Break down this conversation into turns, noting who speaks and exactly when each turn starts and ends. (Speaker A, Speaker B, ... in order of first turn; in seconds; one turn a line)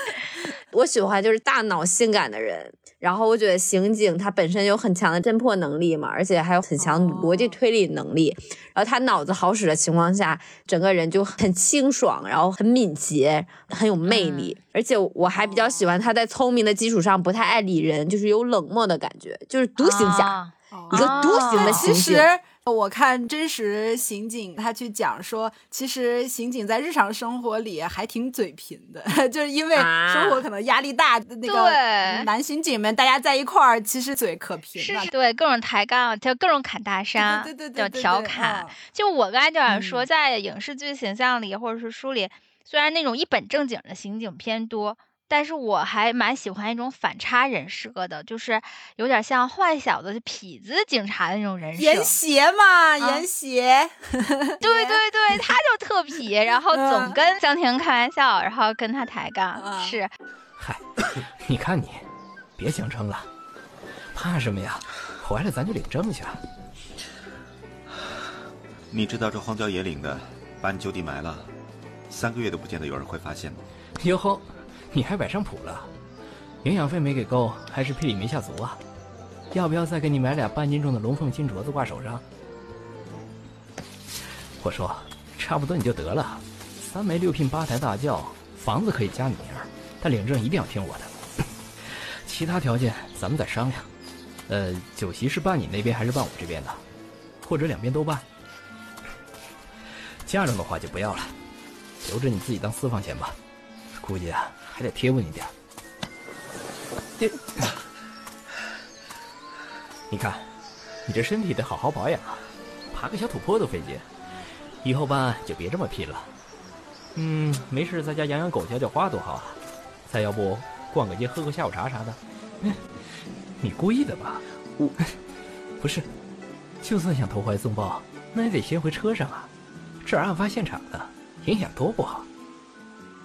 Speaker A: 0.7-20.4
Speaker B: 6.8-7.5
Speaker C: 14.1-14.6
Speaker B: 15.3-15.9
Speaker C: 19.8-21.9
Speaker B: 20.7-35.1
Speaker A: 20.9-22.3
Speaker A: 29.8-30.4
Speaker C: 31.4-32.3
Speaker C: 34.8-52.1
Speaker B: 37.2-38.8
Speaker B: 39.7-40.0
Speaker B: 51.8-55.0
Speaker C: 53.0-53.2
Speaker C: 54.6-60.1
Speaker B: 56.7-57.2
Speaker B: 59.6-60.0
Speaker D: 60.6-60.8
Speaker D: 61.4-62.0
Speaker D: 62.6-63.3
Speaker D: 64.1-66.4
Speaker E: 68.9-71.5
Speaker E: 72.1-73.6
Speaker D: 74.0-75.9
Speaker D: 76.6-78.8
Speaker D: 79.5-82.2
Speaker D: 84.6-91.1
Speaker D: 92.3-93.9
Speaker D: 94.5-96.8
Speaker D: 97.4-98.2
Speaker D: 100.3-101.3
Speaker D: 102.0-103.4
Speaker D: 104.0-105.5
Speaker D: 110.1-110.5
Speaker D: 111.1-114.0
Speaker D: 114.8-116.3
Speaker D: 117.2-122.8
Speaker D: 123.6-124.4
Speaker D: 125.8-126.1
Speaker D: 126.8-129.5
Speaker D: 130.0-132.3